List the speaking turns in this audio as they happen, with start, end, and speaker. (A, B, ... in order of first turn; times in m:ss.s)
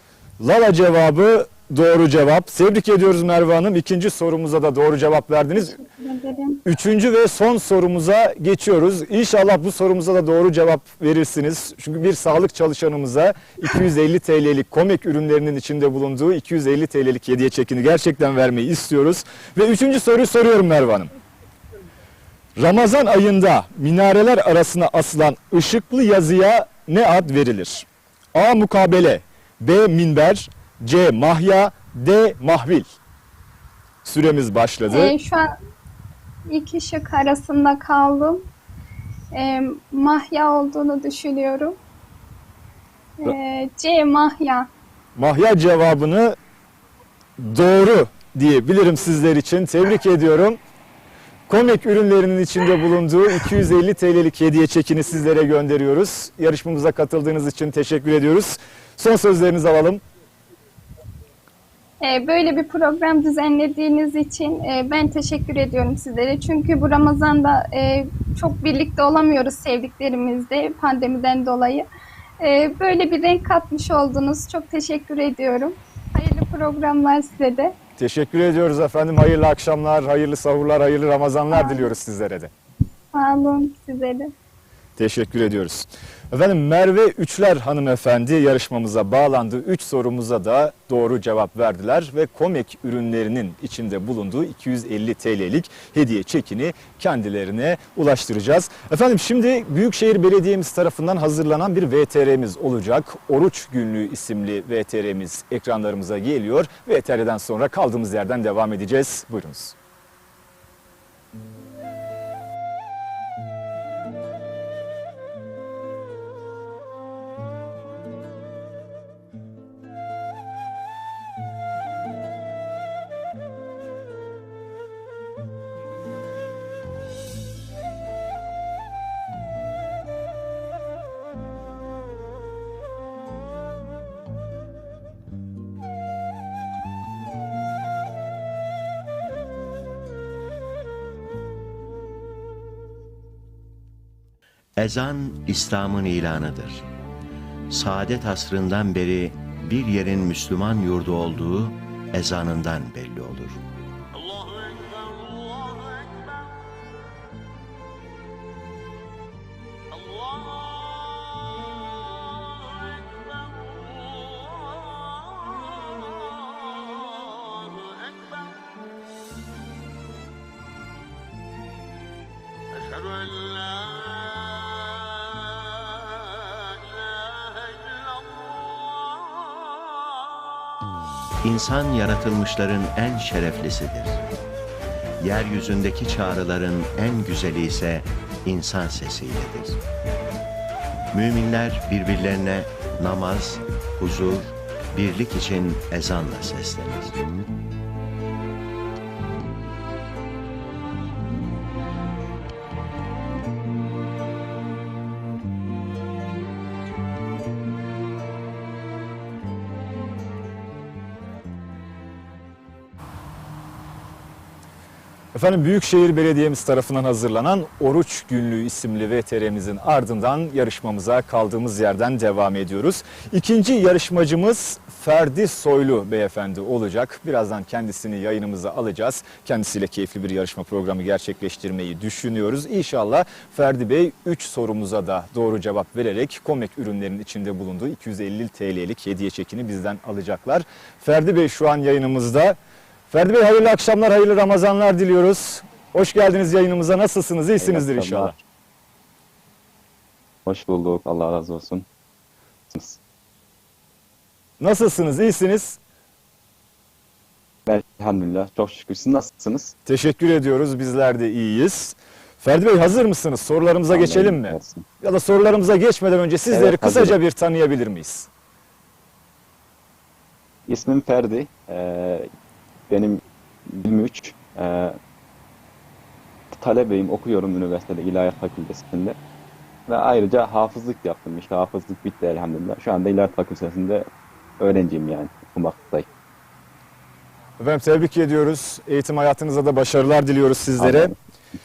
0:00.4-0:05.8 A
0:05.6-0:06.6 B
0:06.6-0:21.1 A
0:22.6-0:32.9 A
0:34.0-0:35.1 A
0:34.9-0:35.5 B
0:36.5-0:38.5 B
0:39.3-0:41.8 B
0:43.2-0:44.7 B
0:45.2-0:46.4 A
0:47.4-0:50.6 A
0:51.5-1:00.0 A
1:02.0-1:11.9 B
1:12.4-1:17.7 B
1:18.0-1:22.5 A
1:21.5-1:21.9 B
1:23.1-1:24.3 B
1:25.0-1:49.7 A
2:24.8-2:26.9 C
2:27.7-2:33.6 C
3:01.4-3:04.2 C
3:05.2-3:09.8 C
3:11.1-3:17.4 C
3:35.3-4:02.6 A
4:03.1-4:08.4 A
4:07.6-4:08.3 D
4:10.4-4:11.8 D
4:12.7-4:13.0 D
4:14.6-4:15.8 A
4:17.6-4:19.7 D
4:19.8-4:28.3 A
4:23.9-4:24.8 D
4:26.5-4:27.2 D
4:30.7-4:32.3 D
4:32.9-4:35.0 D
4:36.5-4:39.2 D
4:39.9-4:44.1 D
4:44.6-4:46.1 D
4:47.6-4:51.1 A
4:50.8-4:51.1 D